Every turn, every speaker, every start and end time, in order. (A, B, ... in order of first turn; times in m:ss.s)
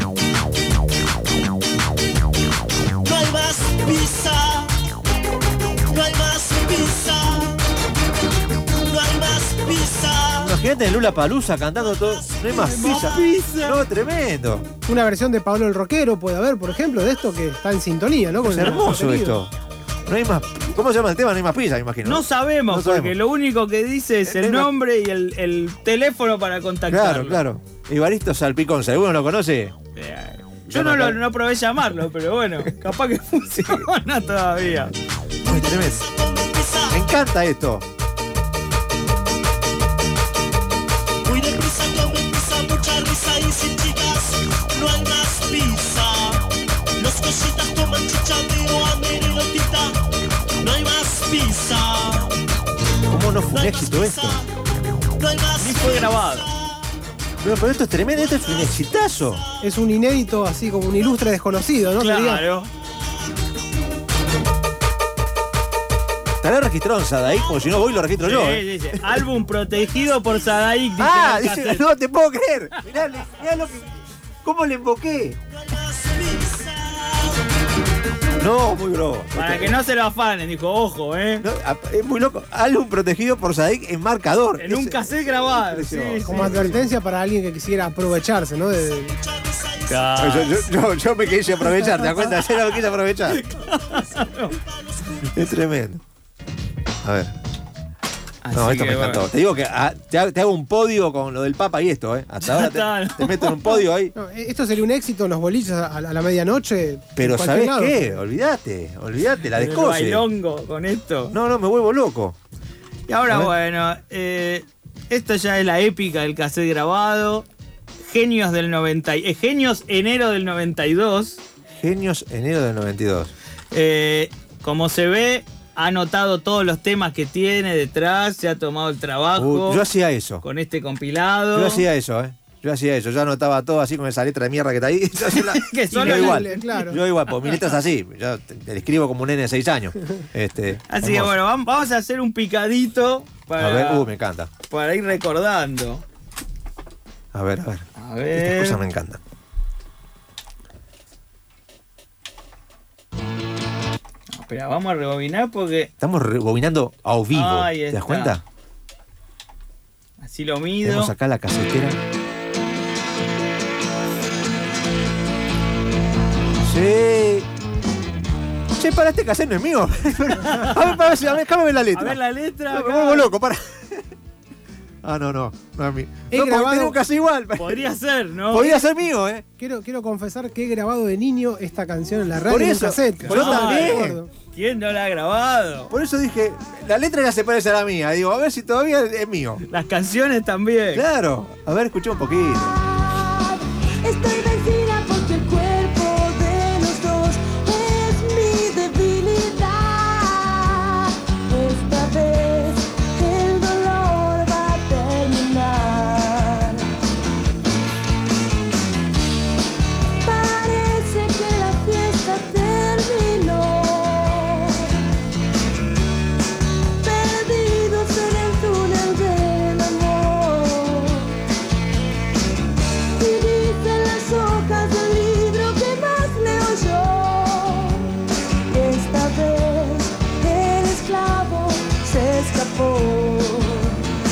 0:03.0-0:04.7 A
0:05.8-0:07.6 A
0:08.7-0:10.5 A
0:10.4-0:14.7 B
0:11.9-0:13.1 A
0:12.5-0:13.8 C
0:14.8-0:19.4 D
0:18.4-0:19.5 B
0:20.0-0:23.2 B
0:22.0-0:27.4 C
0:24.2-0:24.7 B
0:26.9-0:29.7 B
0:30.0-0:34.9 C
0:30.7-0:31.2 B
0:35.4-0:37.0 A
0:35.5-0:36.0 B
0:36.9-0:37.8 B
0:41.2-0:46.4 A
0:47.0-0:50.0 A
0:50.6-0:52.3 A
0:53.1-0:54.4 B
0:53.5-0:54.5 A
0:55.2-0:56.8 A
0:55.6-0:56.4 C
0:57.4-0:59.4 B
0:58.1-0:58.8 A
0:59.6-1:02.4 D
1:02.0-1:02.7 C
1:06.4-1:09.0 B
1:08.2-1:11.8 C
1:11.0-1:13.8 B
1:14.4-1:15.4 B
1:15.5-1:17.4 A
1:18.4-1:19.8 B
1:19.3-1:21.4 C
1:21.4-1:26.9 B
1:24.6-1:26.7 C
1:26.2-1:29.2 D
1:28.9-1:30.6 A
1:29.9-1:30.6 C
1:30.2-1:33.4 B
1:33.3-1:34.5 C
1:33.6-1:35.4 A
1:35.3-1:36.0 B
1:37.0-1:37.3 B
1:38.4-1:39.2 C
1:38.5-1:44.1 B
1:42.4-1:43.8 C
1:44.1-1:48.2 D
1:47.2-1:50.2 B
1:49.5-1:51.4 C
1:51.3-1:52.4 B
1:53.1-1:57.5 C
1:53.3-1:53.5 B
1:58.0-2:01.4 C
2:01.7-2:03.3 B
2:03.7-2:09.8 C
2:09.4-2:10.4 B
2:10.4-2:11.8 C
2:11.5-2:21.3 B
2:15.3-2:16.8 C
2:15.9-2:17.0 D
2:17.3-2:17.6 C
2:20.9-2:24.1 C
2:23.6-2:24.5 B
2:24.7-2:26.0 C
2:27.3-2:29.2 B
2:28.0-2:28.8 C
2:34.3-2:35.9 C
2:36.0-2:38.4 B
2:37.3-2:38.3 C
2:40.2-2:41.1 C
2:40.8-2:42.0 B
2:46.6-2:47.5 B
2:48.7-2:54.0 B
2:50.4-2:51.1 C
2:51.9-2:53.3 C
2:55.0-2:57.8 B
2:56.3-2:57.0 D
2:57.6-2:58.9 C
2:58.5-2:59.4 B
2:59.6-3:04.3 D
3:02.4-3:04.2 B
3:03.2-3:05.9 C
3:05.9-3:09.6 B
3:09.7-3:11.0 C
3:10.9-3:12.8 B
3:12.7-3:26.9 E
3:30.2-3:34.9 E
3:37.0-3:41.3 E
3:43.1-3:48.1 E
3:48.7-3:54.0 E